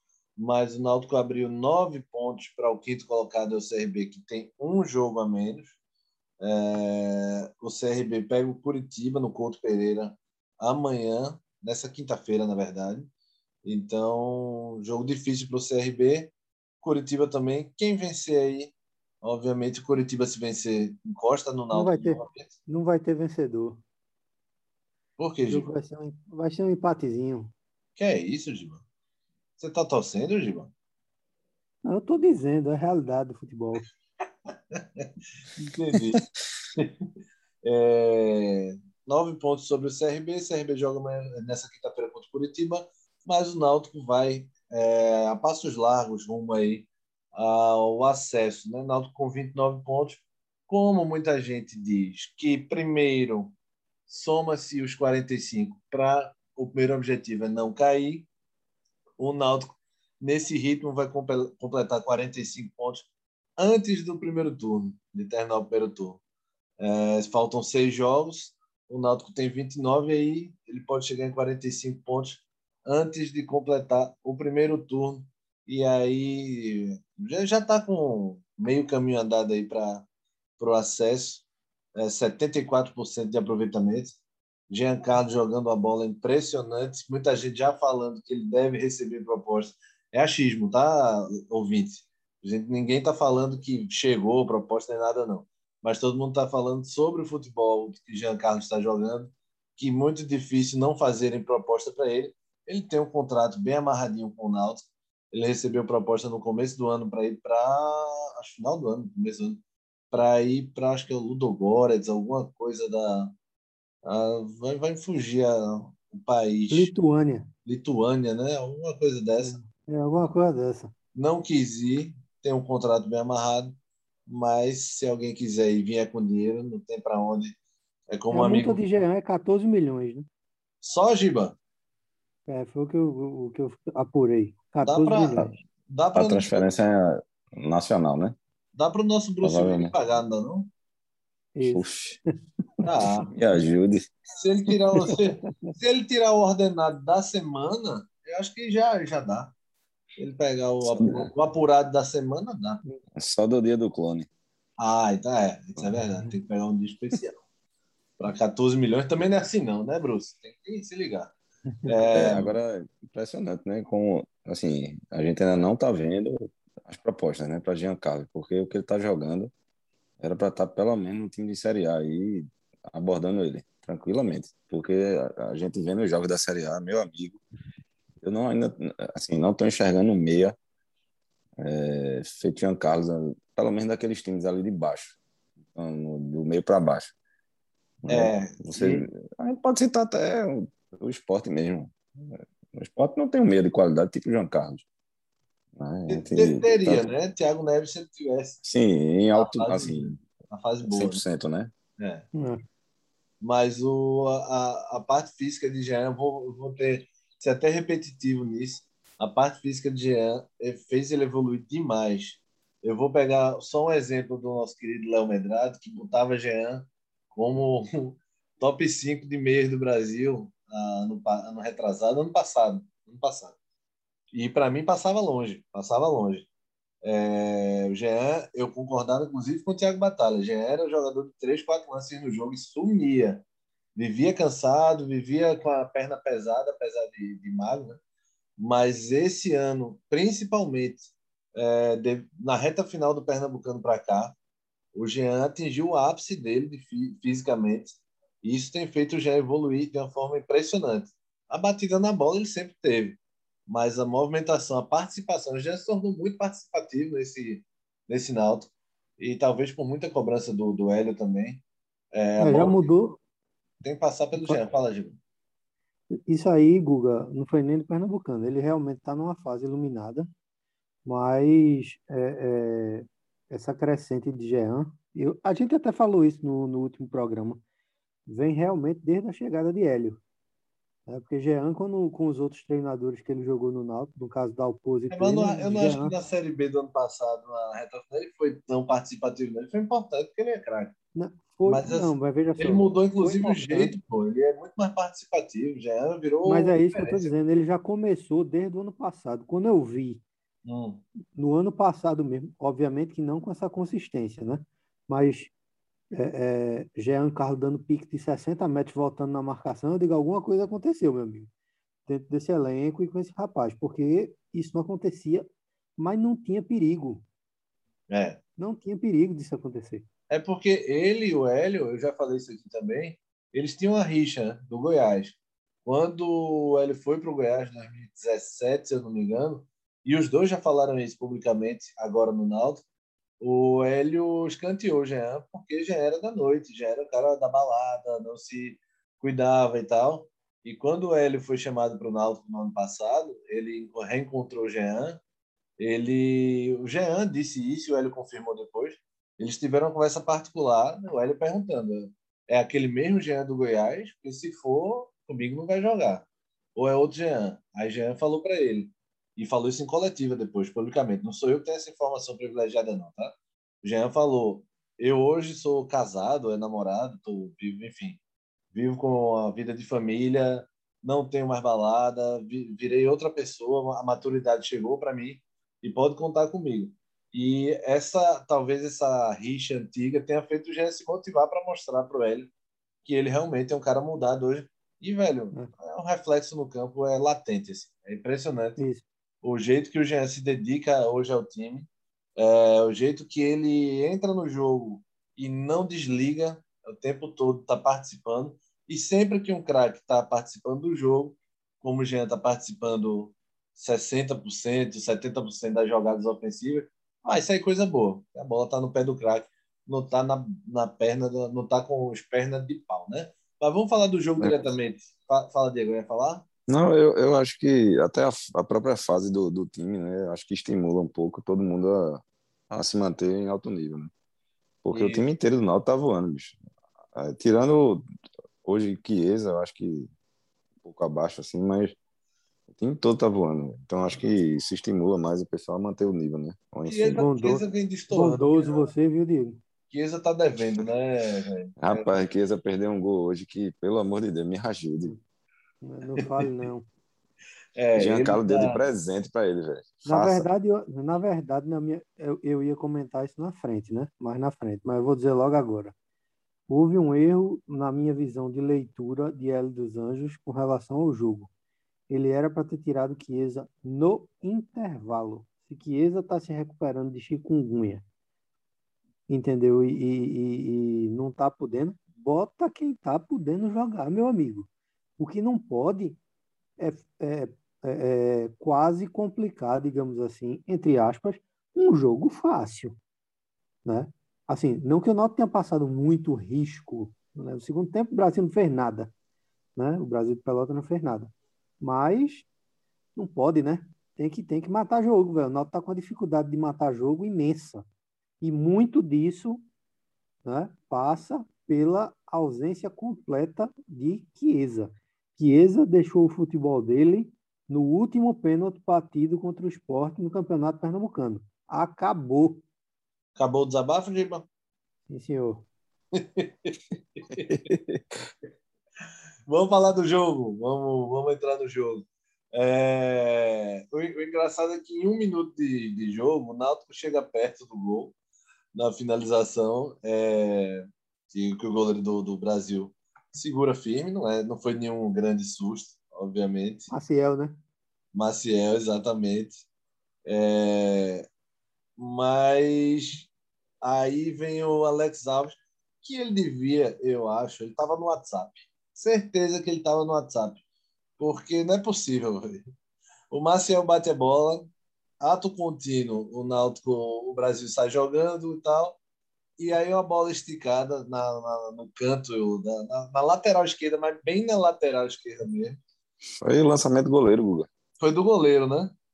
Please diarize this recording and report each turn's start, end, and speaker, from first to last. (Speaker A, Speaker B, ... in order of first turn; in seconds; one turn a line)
Speaker A: 0.4-5.7
Speaker A: 6.4-13.1
Speaker A: 13.6-22.5
Speaker B: 21.7-23.8
Speaker A: 25.2-25.7
Speaker B: 25.5-27.5
Speaker A: 27.9-28.8
Speaker A: 29.6-30.7
Speaker B: 31.8-33.9
Speaker A: 34.7-36.2
Speaker A: 37.6-53.5
Speaker A: 54.1-58.3
Speaker A: 59.2-66.2
Speaker A: 66.8-80.0
Speaker A: 80.6-81.4
Speaker A: 81.9-84.2
Speaker A: 84.7-109.6
Speaker A: 110.1-113.3
Speaker A: 114.0-116.9
Speaker B: 116.7-117.5
Speaker A: 117.7-119.6
Speaker B: 119.4-120.9
Speaker A: 121.1-123.8
Speaker A: 124.3-127.6
Speaker A: 128.1-128.8
Speaker B: 128.3-130.3
Speaker A: 130.8-131.6
Speaker B: 132.5-135.5
Speaker A: 134.8-136.8
Speaker C: 136.1-138.3
Speaker A: 138.8-140.7
Speaker C: 139.4-139.9
Speaker B: 141.5-141.9
Speaker C: 141.6-142.2
Speaker A: 142.8-143.3
Speaker C: 143.3-144.1
Speaker A: 144.4-149.5
Speaker B: 145.0-145.7
Speaker A: 150.2-152.8
Speaker C: 150.8-151.3
Speaker C: 153.2-154.3
Speaker A: 154.8-157.4
Speaker A: 158.2-161.3
Speaker A: 161.8-162.5
Speaker C: 162.1-169.5
Speaker C: 170.2-177.4
Speaker C: 178.2-180.6
Speaker C: 181.6-185.2
Speaker C: 185.7-187.1
Speaker C: 188.0-194.8
Speaker A: 188.1-189.1
Speaker C: 195.8-197.1
Speaker A: 196.1-198.6
Speaker C: 198.6-200.2
Speaker A: 199.3-201.2
Speaker C: 200.8-201.7
Speaker A: 202.0-202.2
Speaker B: 202.3-202.6
Speaker A: 203.4-223.5
Speaker A: 224.3-226.5
Speaker A: 227.0-233.4
Speaker A: 233.9-238.0
Speaker A: 238.6-244.3
Speaker A: 244.9-262.8
Speaker B: 262.4-263.2
Speaker A: 263.8-265.2
Speaker B: 264.4-264.6
Speaker B: 266.2-270.3
Speaker B: 271.1-277.6
Speaker B: 278.3-280.2
Speaker B: 281.1-286.1
Speaker A: 285.1-290.9
Speaker B: 291.1-293.9
Speaker A: 291.6-297.3
Speaker B: 296.4-300.2
Speaker A: 300.6-301.0
Speaker B: 301.4-305.5
Speaker B: 306.1-311.5
Speaker B: 312.1-315.4
Speaker B: 316.0-317.2
Speaker A: 318.1-318.4
Speaker B: 318.6-320.1
Speaker A: 320.3-332.8
Speaker A: 333.4-345.2
Speaker A: 345.8-368.2
Speaker A: 368.7-382.5
Speaker A: 383.0-388.8
Speaker B: 388.8-389.0
Speaker A: 389.4-416.4
Speaker C: 416.7-424.1
Speaker C: 424.8-426.6
Speaker A: 424.9-425.2
Speaker C: 427.1-428.0
Speaker C: 428.6-430.1
Speaker C: 430.8-431.9
Speaker C: 432.7-437.2
Speaker A: 436.9-438.9
Speaker B: 437.1-439.6
Speaker A: 439.9-442.1
Speaker C: 441.8-445.1
Speaker B: 445.8-446.9
Speaker A: 447.8-448.8
Speaker C: 447.9-450.5
Speaker B: 450.0-455.9
Speaker B: 456.7-461.5
Speaker B: 462.1-468.0
Speaker B: 469.3-476.2
Speaker B: 476.8-483.0
Speaker B: 483.8-489.1
Speaker B: 489.8-492.5
Speaker B: 493.1-497.9
Speaker B: 498.4-499.6
Speaker B: 500.4-512.6
Speaker A: 513.4-514.5
Speaker B: 515.1-515.7
Speaker A: 516.1-517.6
Speaker C: 517.4-518.3
Speaker A: 519.5-528.1
Speaker A: 528.7-536.9
Speaker B: 536.9-537.6
Speaker A: 538.1-539.6
Speaker A: 540.2-541.2
Speaker A: 542.0-543.3
Speaker A: 543.8-550.6
Speaker A: 551.2-552.7
Speaker A: 553.3-559.0
Speaker A: 559.6-565.8
Speaker C: 566.4-567.7
Speaker A: 568.0-568.9